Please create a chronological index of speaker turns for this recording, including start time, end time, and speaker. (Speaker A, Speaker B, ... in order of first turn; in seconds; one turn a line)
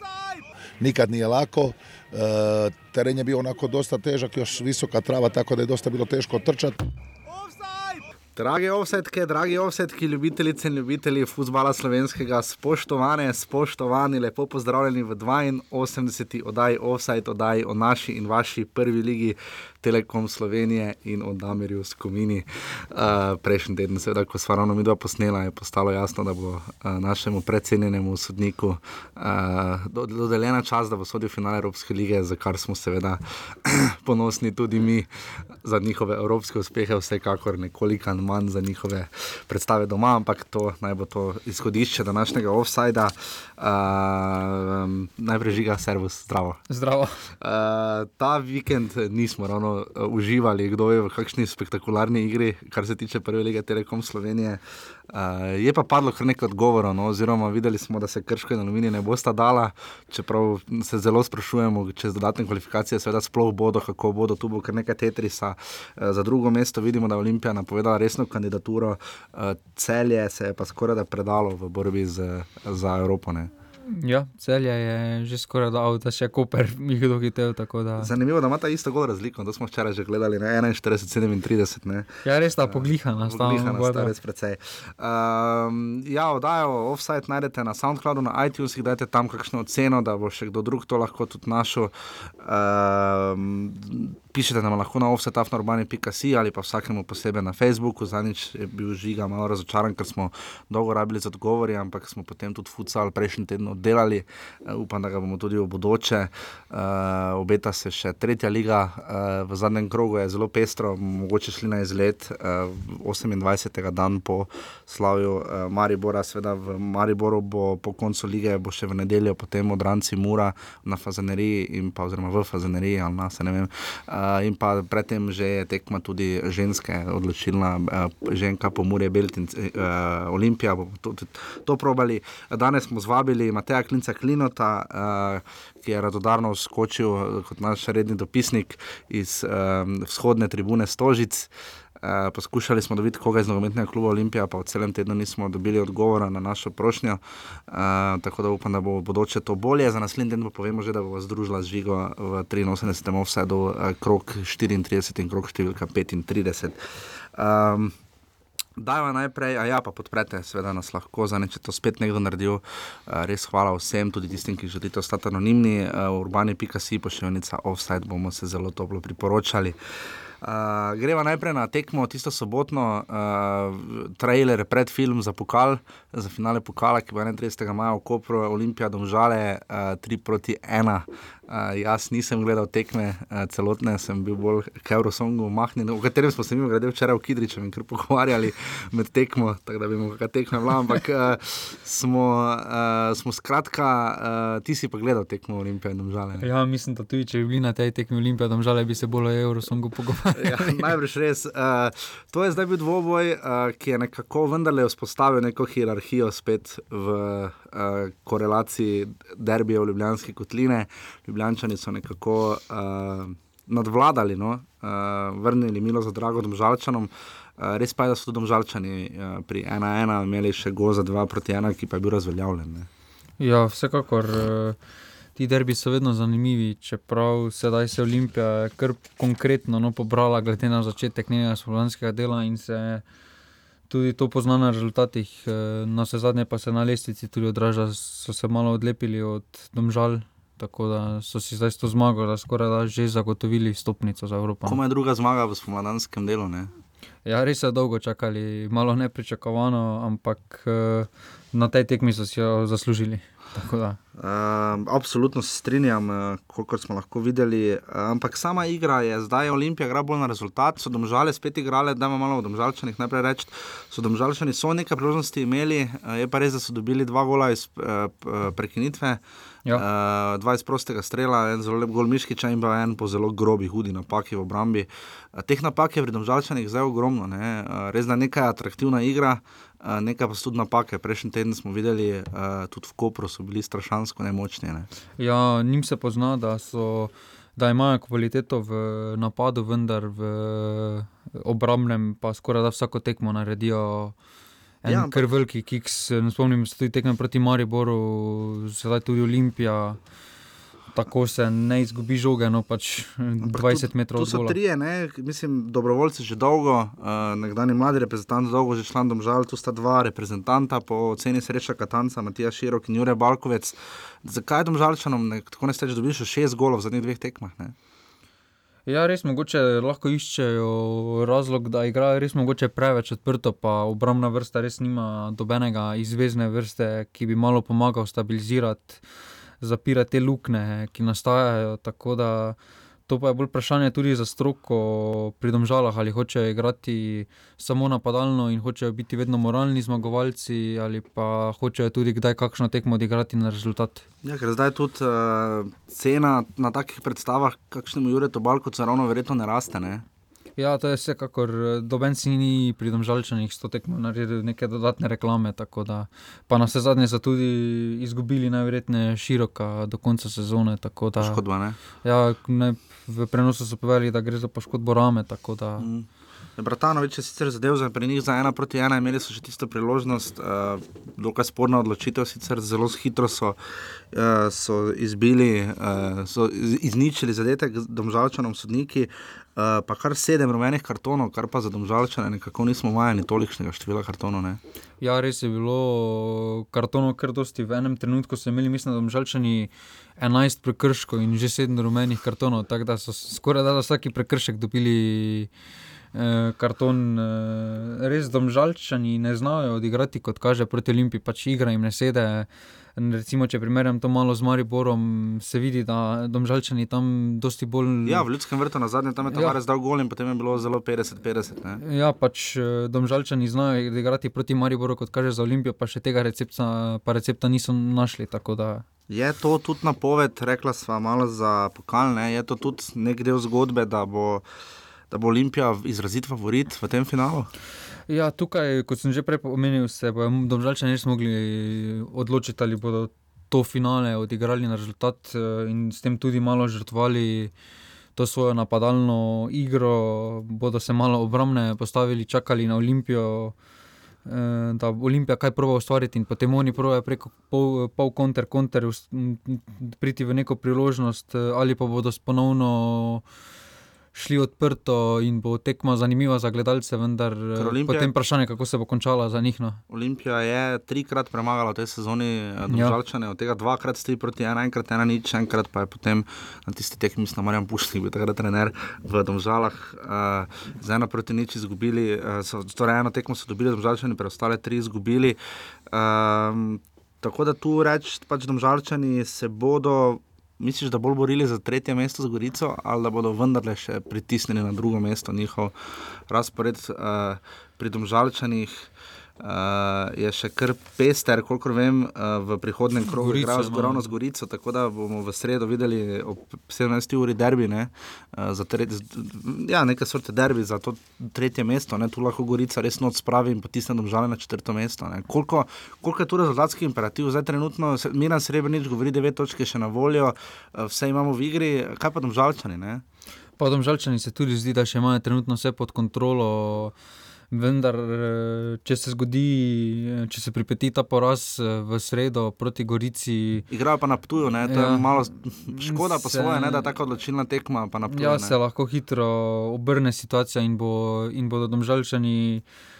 Speaker A: 0.8-6.8
Speaker B: 8.3-46.6
Speaker C: 46.7-47.2
Speaker B: 47.4-73.5
Speaker C: 73.9-78.1
Speaker B: 78.0-156.8
Speaker C: 82.2-84.1
Speaker B: 157.3-157.9
Speaker B: 158.8-169.8
Speaker B: 170.4-196.4
Speaker C: 196.4-200.9
Speaker B: 200.3-222.9
Speaker C: 223.4-224.8
Speaker C: 225.3-233.0
Speaker C: 233.9-244.8
Speaker B: 244.7-246.7
Speaker C: 247.2-254.0
Speaker B: 254.2-269.2
Speaker B: 269.7-284.9
Speaker C: 285.2-294.1
Speaker C: 294.8-300.0
Speaker B: 294.8-295.3
Speaker C: 300.9-304.6
Speaker B: 303.4-317.7
Speaker C: 318.9-329.0
Speaker C: 329.6-332.6
Speaker C: 333.1-344.0
Speaker B: 344.2-350.0
Speaker C: 350.6-361.4
Speaker B: 361.2-361.8
Speaker C: 362.0-365.9
Speaker B: 365.8-373.6
Speaker B: 374.1-384.6
Speaker C: 385.0-395.5
Speaker C: 396.1-408.2
Speaker B: 408.0-411.8
Speaker C: 409.3-409.6
Speaker C: 411.8-418.8
Speaker B: 419.1-424.4
Speaker B: 425.1-427.5
Speaker C: 428.1-437.5
Speaker C: 438.1-443.5
Speaker C: 444.2-453.2
Speaker C: 454.1-459.8
Speaker B: 457.6-458.1
Speaker B: 459.9-475.4
Speaker C: 462.7-462.9
Speaker B: 475.9-485.7
Speaker B: 486.3-488.9
Speaker B: 489.4-513.0
Speaker C: 493.1-494.1
Speaker C: 513.6-516.9
Speaker C: 517.5-523.6
Speaker B: 523.7-528.5
Speaker C: 524.7-526.9
Speaker C: 528.1-532.6